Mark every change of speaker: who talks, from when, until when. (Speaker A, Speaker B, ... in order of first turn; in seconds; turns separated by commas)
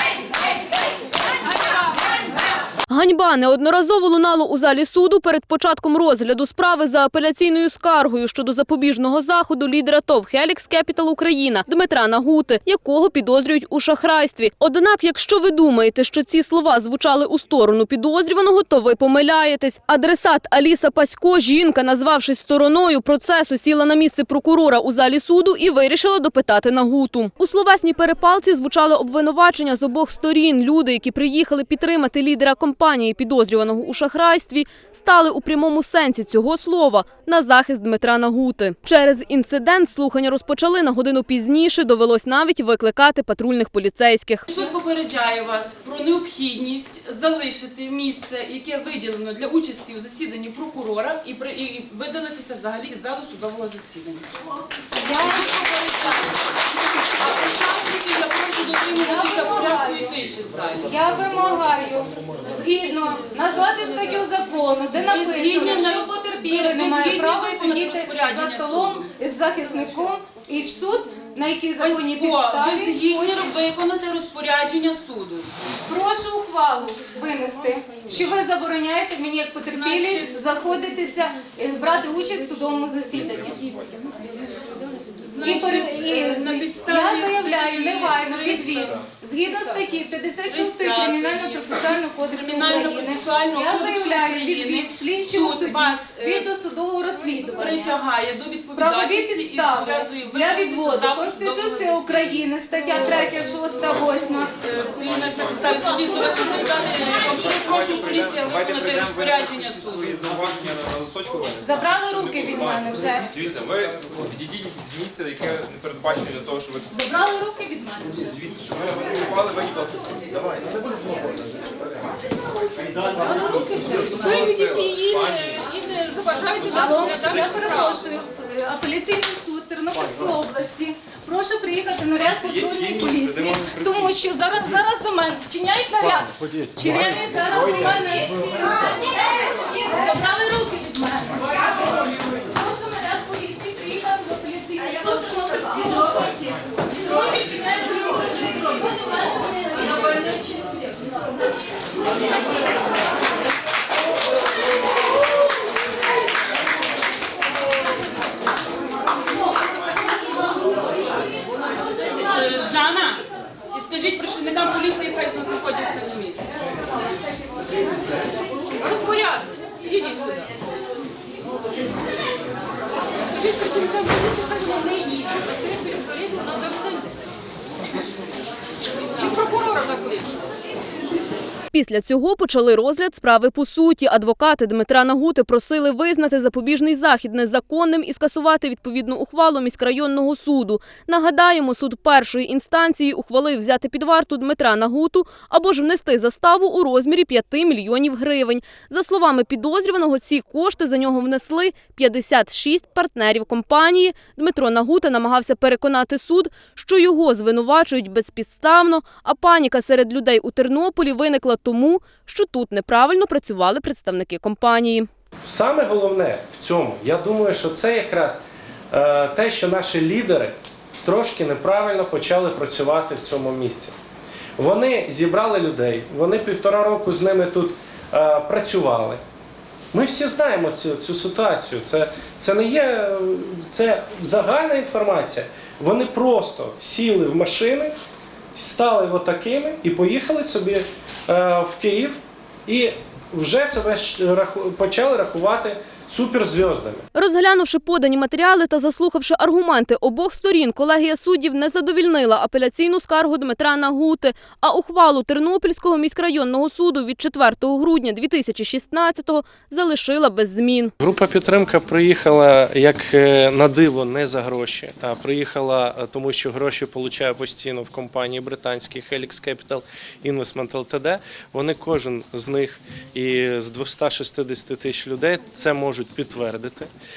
Speaker A: 2.9-44.5, Speaker B: 44.5-54.6, Speaker C: 54.9-55.6, Speaker B: 55.2-56.4, Speaker B: 57.0-60.9, Speaker C: 59.0-60.1, Speaker C: 60.9-73.5, Speaker B: 65.0-69.1, Speaker B: 71.8-75.5, Speaker C: 75.8-83.8, Speaker B: 79.7-80.3, Speaker B: 85.2-89.1, Speaker C: 85.4-97.9, Speaker B: 90.5-96.5, Speaker B: 97.4-102.4, Speaker C: 98.8-104.6, Speaker B: 104.6-110.3, Speaker D: 105.0-105.8, Speaker C: 105.7-107.1, Speaker D: 106.7-116.9, Speaker C: 111.6-113.3, Speaker C: 116.9-118.2, Speaker D: 118.2-120.9, Speaker D: 122.9-127.9, Speaker C: 123.2-150.2, Speaker B: 124.1-124.3, Speaker D: 132.4-134.1, Speaker B: 162.2-166.5, Speaker A: 181.7-215.1, Speaker E: 215.4-218.4, Speaker E: 218.9-223.9, Speaker E: 224.6-229.2, Speaker E: 229.9-237.9, Speaker E: 238.6-247.1, Speaker A: 247.2-260.9, Speaker E: 261.0-276.9